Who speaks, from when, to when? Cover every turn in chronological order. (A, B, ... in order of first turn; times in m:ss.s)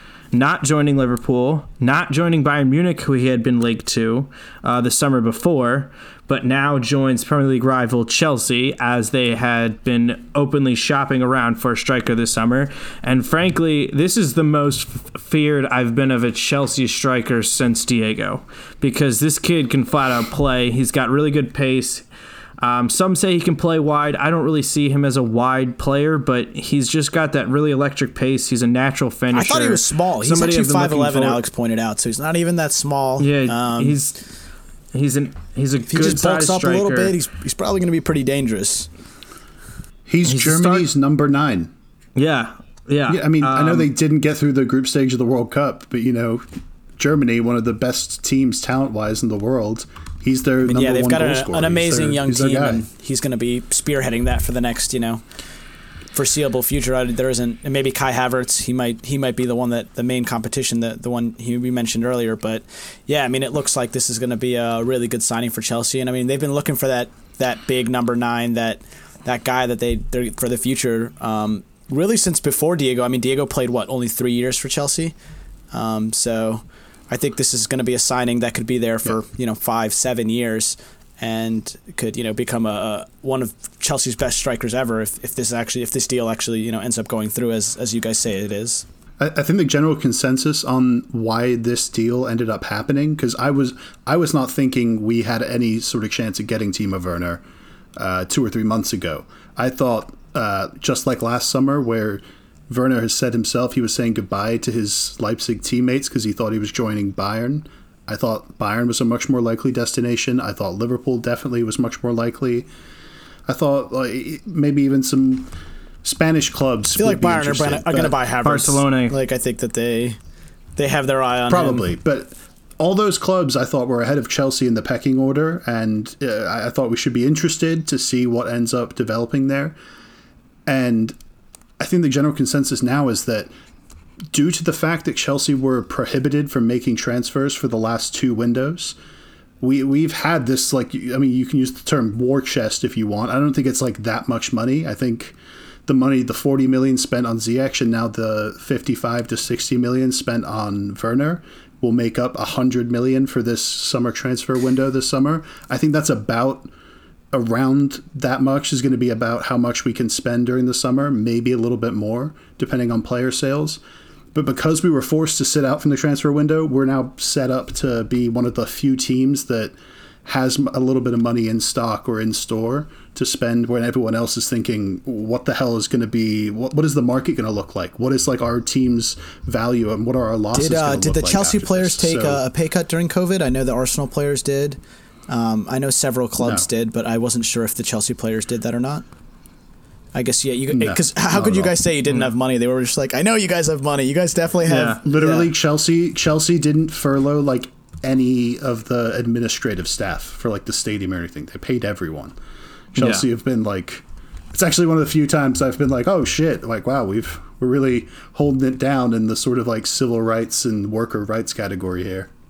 0:00.3-0:22.0 A
0:22.6-0:31.4 A
0:29.3-0:34.0 B
0:33.2-0:34.2 A
0:34.9-0:37.1 A
0:35.9-0:38.9 B
0:40.1-0:41.7 C
0:40.2-0:40.9 A
0:42.2-0:43.9 A
0:43.1-0:46.4 C
0:47.0-0:52.8 C
0:50.6-0:55.2 B
0:56.1-1:15.1 B
1:15.7-1:28.8 B
1:29.2-1:37.4 C
1:38.0-1:52.7 C
1:53.5-1:55.5 C
1:56.0-1:58.2 C
1:57.0-2:00.2 B
1:58.4-1:59.2 A
2:00.8-2:01.9 B
2:01.5-2:09.8 C
2:10.7-2:11.2 C
2:11.8-2:13.5 C
2:14.3-2:19.0 C
2:19.6-2:36.7 C
2:37.3-2:43.8 C
2:44.3-2:49.7 C
2:50.2-3:02.4 C
3:00.5-3:09.0 B
3:06.4-3:06.7 C
3:10.1-3:15.5 B
3:10.7-3:11.8 C
3:14.7-3:15.0 A
3:15.0-3:22.3 C
3:22.9-3:32.3 C
3:23.0-3:23.2 A